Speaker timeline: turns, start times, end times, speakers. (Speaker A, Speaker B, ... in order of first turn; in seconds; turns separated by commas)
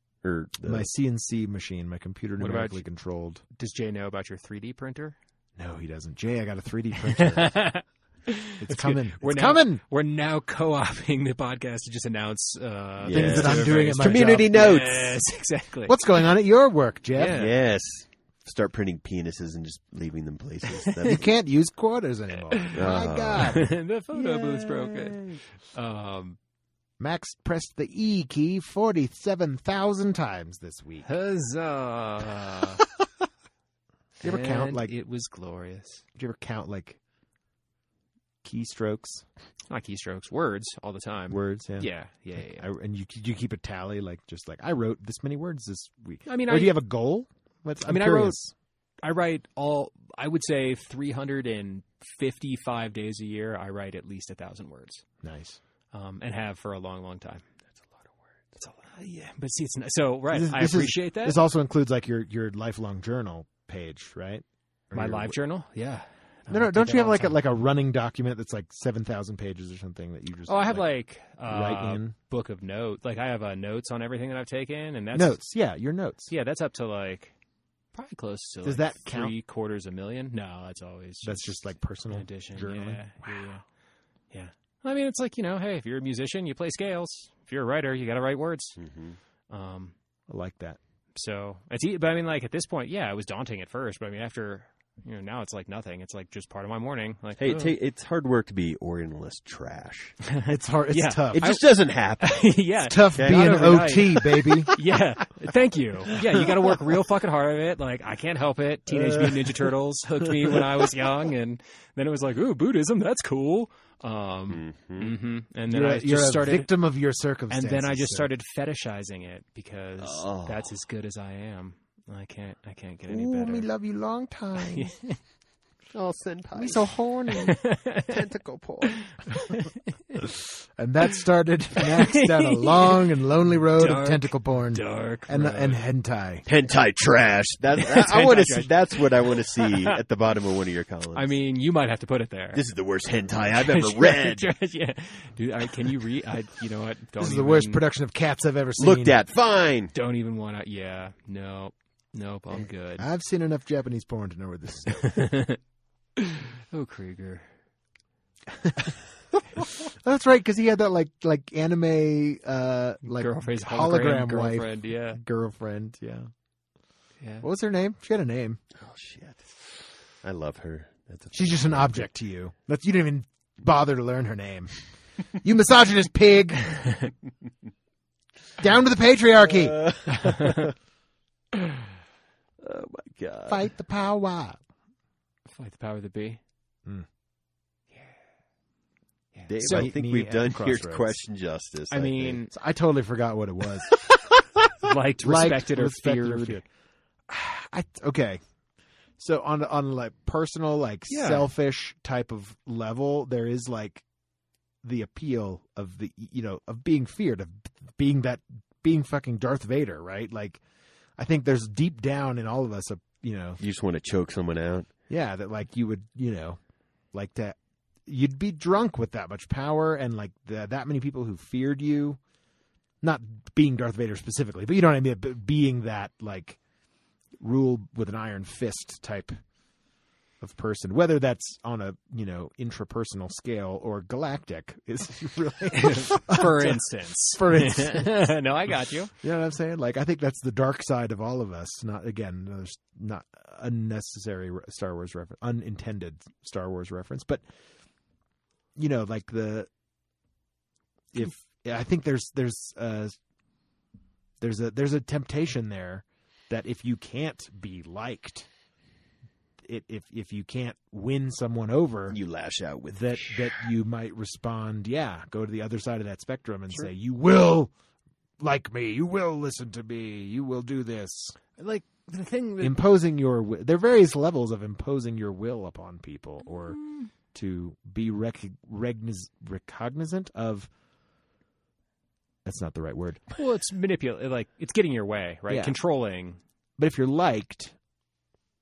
Speaker A: 0.2-0.9, Speaker B: 0.6-3.4, Speaker C: 2.4-2.8, Speaker C: 3.5-5.2, Speaker B: 5.6-7.8, Speaker C: 7.2-16.2, Speaker B: 8.6-9.8, Speaker A: 13.0-15.2, Speaker B: 13.1-14.5, Speaker B: 15.9-17.4, Speaker C: 17.1-17.5, Speaker A: 17.3-21.2, Speaker C: 20.8-21.2, Speaker B: 21.0-25.2, Speaker C: 22.5-26.4, Speaker A: 22.7-23.6, Speaker B: 27.0-31.1, Speaker C: 31.1-32.8, Speaker B: 34.2-34.9, Speaker C: 34.2-36.0, Speaker B: 36.2-37.0, Speaker B: 38.4-39.2, Speaker C: 39.7-42.7, Speaker B: 41.3-48.5, Speaker C: 46.3-46.8, Speaker C: 47.9-48.4, Speaker C: 49.0-55.0, Speaker B: 55.2-55.6, Speaker C: 55.9-57.4, Speaker C: 58.6-61.4, Speaker B: 60.3-65.4, Speaker C: 64.9-67.4, Speaker B: 66.5-70.9, Speaker C: 70.5-75.4, Speaker B: 71.4-72.2, Speaker B: 75.1-76.3, Speaker C: 76.3-77.3, Speaker C: 77.9-83.6, Speaker B: 78.6-79.3, Speaker B: 81.2-83.6, Speaker C: 84.3-88.8, Speaker A: 88.8-89.2, Speaker C: 89.5-89.9, Speaker B: 90.3-90.8, Speaker C: 91.2-97.7, Speaker A: 97.4-100.2, Speaker C: 100.3-101.6, Speaker B: 100.5-101.5, Speaker A: 101.3-102.6, Speaker C: 102.2-116.7, Speaker B: 102.9-104.8, Speaker A: 103.1-104.1, Speaker A: 108.9-109.5, Speaker A: 114.5-115.2, Speaker B: 115.7-118.3, Speaker C: 117.5-123.7, Speaker A: 120.0-120.7, Speaker B: 123.1-124.9, Speaker C: 124.6-125.2, Speaker A: 125.9-127.3, Speaker B: 126.5-127.7, Speaker C: 127.3-128.2, Speaker A: 128.1-129.2, Speaker C: 128.9-130.2, Speaker B: 130.2-136.5, Speaker C: 131.8-133.1, Speaker C: 133.8-135.8, Speaker A: 136.5-141.3, Speaker C: 137.8-140.0, Speaker C: 141.1-142.6, Speaker A: 142.5-144.5, Speaker C: 143.6-147.8, Speaker B: 147.2-149.2, Speaker A: 148.8-149.9, Speaker C: 149.9-153.1, Speaker B: 153.0-155.3, Speaker C: 155.0-155.6, Speaker C: 156.2-157.5, Speaker B: 158.6-158.9, Speaker B: 159.6-166.3, Speaker C: 163.1-165.2, Speaker C: 167.2-167.5, Speaker B: 167.4-168.6, Speaker A: 168.8-169.6, Speaker A: 170.2-172.1, Speaker B: 171.3-177.0, Speaker B: 178.6-179.9, Speaker A: 179.4-180.7, Speaker C: 180.1-180.7, Speaker A: 182.6-183.6, Speaker B: 183.5-184.6, Speaker C: 185.6-186.4, Speaker C: 189.3-189.9, Speaker A: 189.5-192.4, Speaker B: 189.7-191.2, Speaker C: 191.9-192.5, Speaker B: 192.5-194.1, Speaker C: 194.8-196.6, Speaker B: 195.2-196.6, Speaker B: 197.3-198.4, Speaker B: 199.2-204.0, Speaker C: 201.1-201.5, Speaker B: 204.8-210.6, Speaker B: 211.2-213.6, Speaker A: 213.6-214.9, Speaker B: 215.1-216.6, Speaker B: 217.1-222.2, Speaker B: 223.0-226.6, Speaker B: 227.4-229.4, Speaker B: 230.4-238.2, Speaker C: 235.8-239.1, Speaker B: 239.2-247.4, Speaker B: 248.8-249.7, Speaker B: 251.1-253.2, Speaker B: 254.4-258.5, Speaker B: 259.6-262.2, Speaker A: 262.1-263.6, Speaker B: 262.9-267.7, Speaker B: 268.4-271.4, Speaker C: 271.6-272.8, Speaker B: 272.6-276.8, Speaker C: 276.8-277.1, Speaker B: 277.3-280.7, Speaker B: 282.4-283.2, Speaker C: 283.3-286.4, Speaker B: 285.5-285.8, Speaker B: 286.8-287.7